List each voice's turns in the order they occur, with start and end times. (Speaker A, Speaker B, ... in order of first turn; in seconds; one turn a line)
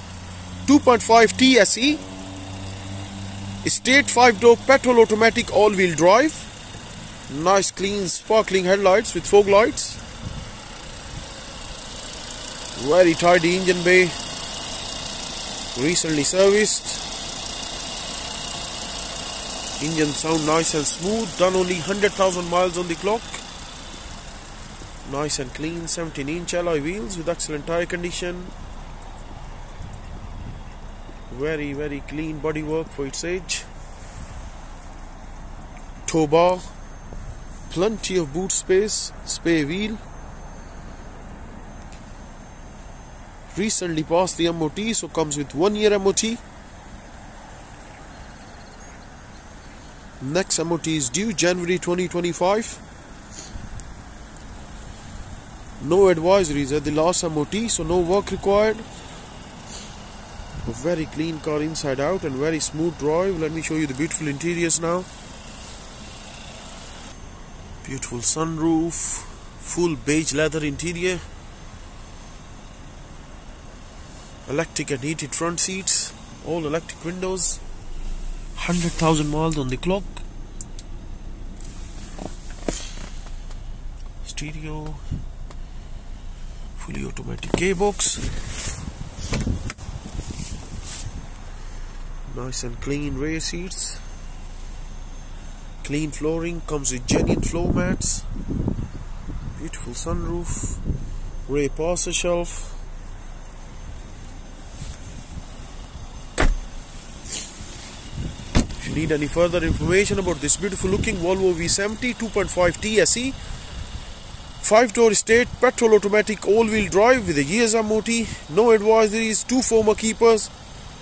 Speaker A: 0.7-2.0
Speaker A: 3.6-6.5
Speaker A: 7.3-10.0
Speaker A: 12.8-14.2
Speaker A: 15.7-17.1
Speaker A: 19.8-23.4
Speaker A: 25.1-28.5
Speaker A: 31.3-33.7
Speaker A: 36.1-36.7
Speaker A: 37.7-40.0
Speaker A: 43.5-46.4
Speaker A: 50.2-52.8
Speaker A: 55.8-58.9
Speaker A: 60.6-65.1
Speaker A: 67.8-71.2
Speaker A: 74.5-77.6
Speaker A: 78.5-80.2
Speaker A: 84.2-85.0
Speaker A: 86.8-88.3
Speaker A: 92.3-94.0
Speaker A: 95.8-98.3
Speaker A: 99.5-100.8
Speaker A: 101.5-102.8
Speaker A: 108.8-113.4
Speaker A: 114.6-120.5